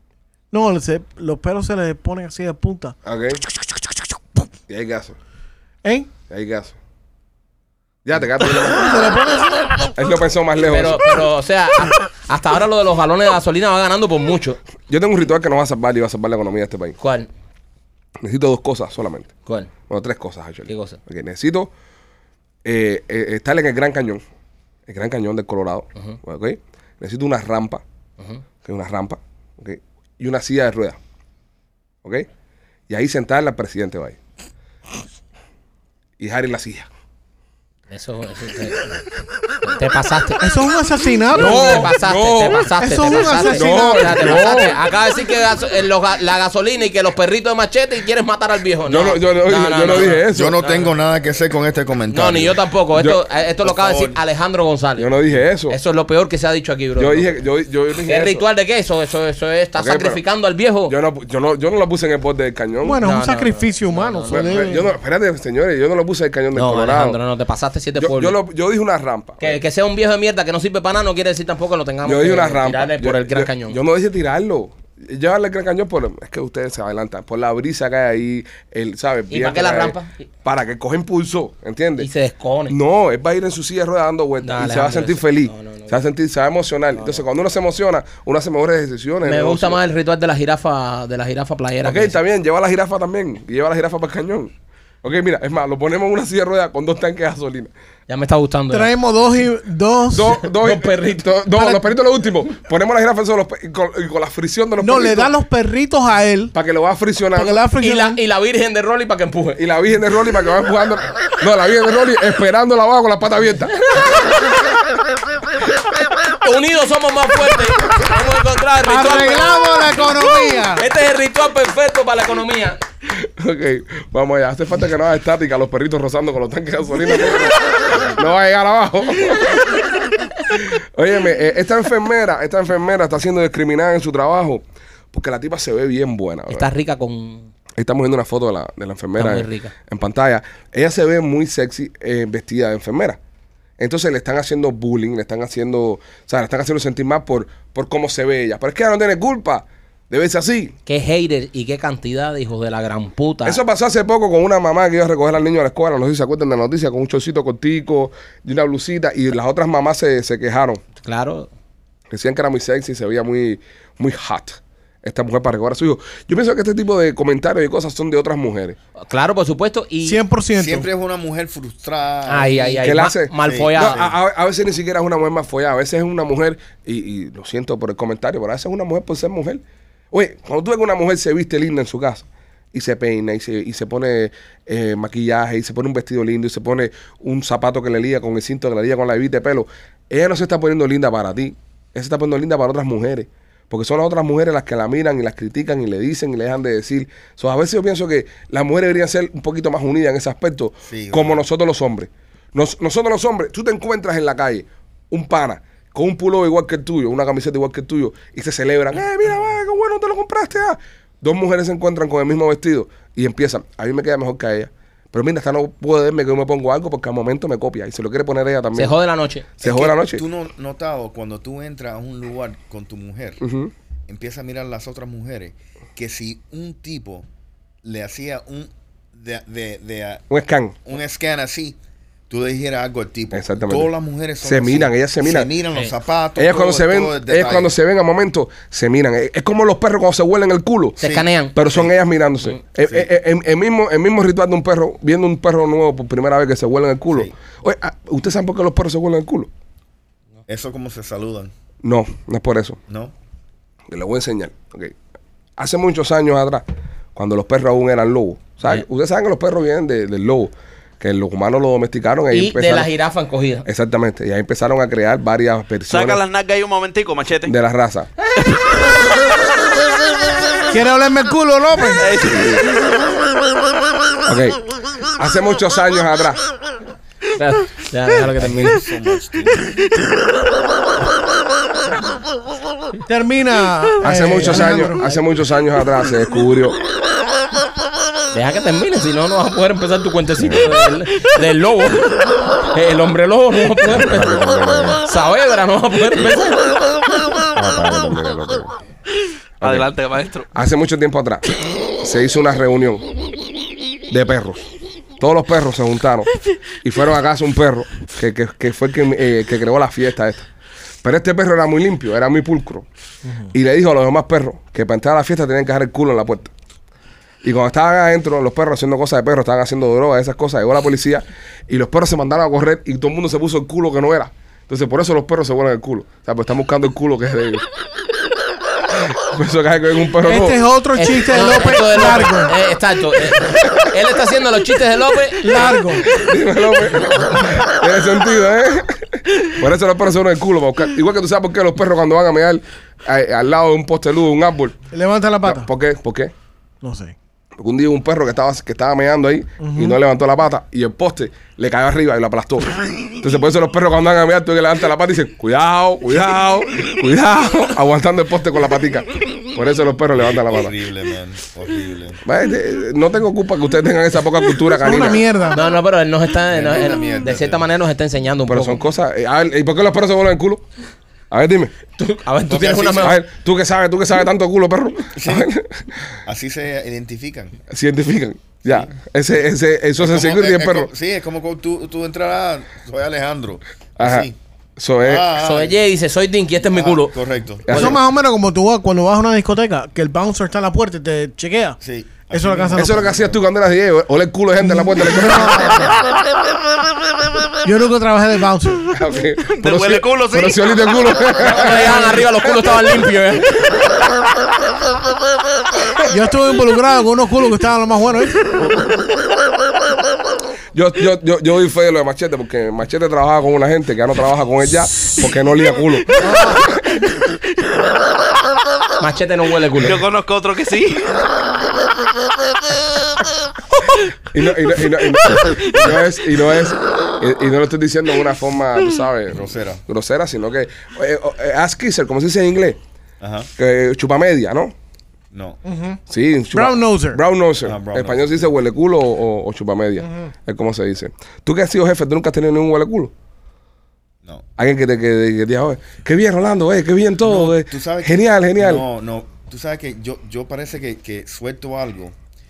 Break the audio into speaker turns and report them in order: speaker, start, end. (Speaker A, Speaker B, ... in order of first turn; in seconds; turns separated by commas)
Speaker A: 0.5-2.9, Speaker B: 3.0-3.4, Speaker B: 4.7-5.2, Speaker A: 5.8-6.1, Speaker B: 6.3-6.8, Speaker B: 8.0-9.0, Speaker A: 8.7-9.9, Speaker B: 9.9-11.1, Speaker C: 10.6-14.6, Speaker B: 14.9-16.9, Speaker C: 17.0-17.3, Speaker B: 18.2-19.3, Speaker C: 19.4-19.7, Speaker B: 19.9-21.7, Speaker C: 20.7-21.0, Speaker B: 22.6-24.2, Speaker B: 24.9-27.8, Speaker B: 28.6-31.0, Speaker B: 32.9-34.2, Speaker B: 36.2-36.9, Speaker C: 37.9-39.0, Speaker C: 39.6-40.4, Speaker A: 40.4-41.9, Speaker C: 41.3-50.9, Speaker B: 41.3-42.7, Speaker A: 42.8-44.7, Speaker B: 43.5-44.8, Speaker B: 48.9-50.6, Speaker D: 50.3-52.5, Speaker C: 52.1-55.1, Speaker B: 52.9-53.2, Speaker D: 53.6-54.2, Speaker B: 55.0-55.8, Speaker C: 55.7-57.3, Speaker B: 57.0-58.4, Speaker C: 58.0-60.9, Speaker B: 59.8-60.2, Speaker B: 60.9-63.0, Speaker A: 62.8-64.9, Speaker C: 63.0-64.7, Speaker B: 64.3-67.2, Speaker C: 66.5-68.3, Speaker B: 68.0-69.6, Speaker C: 69.4-73.8, Speaker B: 72.0-82.1, Speaker C: 79.3-80.3, Speaker C: 82.0-82.8, Speaker B: 82.7-89.8, Speaker C: 84.4-86.0, Speaker C: 87.0-87.2, Speaker C: 89.2-92.2, Speaker B: 91.8-97.7, Speaker C: 98.1-98.9, Speaker A: 98.7-100.4, Speaker B: 100.1-105.3, Speaker C: 100.5-101.4, Speaker A: 104.8-106.5, Speaker B: 106.5-107.6, Speaker A: 107.3-108.2, Speaker C: 107.8-109.6, Speaker B: 109.6-113.8, Speaker C: 116.4-120.0, Speaker A: 118.8-120.8, Speaker C: 120.8-122.8, Speaker B: 123.1-136.7, Speaker C: 136.5-137.5, Speaker B: 137.8-143.2, Speaker C: 139.2-139.7, Speaker B: 143.8-150.8, Speaker C: 150.8-153.6, Speaker B: 153.4-160.8, Speaker C: 161.0-161.5, Speaker B: 162.1-168.8, Speaker C: 169.0-170.2, Speaker A: 170.0-170.9, Speaker D: 170.5-174.1, Speaker C: 172.2-174.0, Speaker B: 172.8-218.9, Speaker D: 200.9-201.4, Speaker C: 218.7-219.5, Speaker B: 219.6-220.2, Speaker D: 219.6-223.4, Speaker B: 223.4-223.7, Speaker D: 224.1-227.2, Speaker D: 227.8-230.2, Speaker B: 230.3-230.8, Speaker D: 230.9-231.8, Speaker D: 232.3-237.7, Speaker B: 233.3-235.5, Speaker B: 236.3-241.0, Speaker C: 241.0-241.6, Speaker D: 241.0-241.9, Speaker B: 241.5-249.5, Speaker D: 242.8-243.1, Speaker D: 250.5-251.5, Speaker B: 251.8-252.8, Speaker D: 252.9-253.1, Speaker B: 253.9-254.9, Speaker B: 255.6-256.6, Speaker B: 257.1-262.9, Speaker C: 262.3-263.6, Speaker B: 263.6-266.2, Speaker E: 265.9-267.5, Speaker B: 267.4-268.1, Speaker E: 268.4-268.8, Speaker A: 270.7-272.1, Speaker E: 271.9-272.8, Speaker B: 272.1-272.7, Speaker B: 274.2-276.4, Speaker C: 277.4-278.8, Speaker D: 278.3-279.8, Speaker A: 283.1-285.0, Speaker B: 284.0-286.8, Speaker C: 284.4-285.2, Speaker C: 288.3-294.4, Speaker B: 290.4-290.8, Speaker B: 293.9-295.0, Speaker C: 295.0-296.6, Speaker B: 297.5-298.8, Speaker B: 299.6-299.9, Speaker E: 299.6-300.5, Speaker B: 300.5-301.5, Speaker B: 302.0-303.1, Speaker B: 304.1-304.7, Speaker B: 305.2-306.3, Speaker B: 306.8-310.5, Speaker B: 311.0-312.8, Speaker A: 313.2-313.5, Speaker B: 313.5-316.5, Speaker B: 317.4-327.6, Speaker B: 328.9-330.6, Speaker A: 330.2-332.6, Speaker C: 330.9-336.0, Speaker B: 333.4-333.9, Speaker A: 335.4-336.1, Speaker B: 336.1-344.8, Speaker A: 344.9-345.7, Speaker B: 345.4-346.3, Speaker A: 346.8-347.1, Speaker B: 347.6-360.7, Speaker A: 349.6-350.0, Speaker D: 360.1-362.2, Speaker B: 362.2-365.3, Speaker A: 364.7-365.7, Speaker C: 365.5-368.8, Speaker D: 366.5-367.6, Speaker B: 368.5-370.6, Speaker B: 371.3-371.7, Speaker C: 372.0-373.2, Speaker D: 372.5-373.2, Speaker B: 373.0-376.0, Speaker D: 375.1-375.5, Speaker D: 376.2-377.6, Speaker B: 377.7-380.9, Speaker D: 378.6-378.9, Speaker D: 380.0-384.3, Speaker B: 384.0-385.2, Speaker D: 385.0-385.8, Speaker C: 385.3-387.2, Speaker D: 386.7-387.9, Speaker B: 387.6-388.0, Speaker A: 387.7-391.8, Speaker D: 391.8-393.4, Speaker A: 392.3-393.0, Speaker B: 392.7-395.9, Speaker A: 394.6-396.0, Speaker A: 397.6-398.9, Speaker B: 398.9-402.4, Speaker E: 399.5-401.4, Speaker C: 401.4-403.7, Speaker A: 406.1-408.7, Speaker B: 410.7-416.6, Speaker A: 416.2-416.6, Speaker C: 419.0-420.0, Speaker E: 419.8-421.3, Speaker B: 424.3-432.8, Speaker D: 429.3-429.8, Speaker D: 433.2-433.5, Speaker B: 433.6-434.7, Speaker D: 435.3-435.6, Speaker A: 435.6-436.0, Speaker B: 436.1-443.1, Speaker A: 436.5-437.2, Speaker D: 437.6-438.5, Speaker A: 440.0-440.3, Speaker B: 444.6-448.8, Speaker D: 447.2-452.1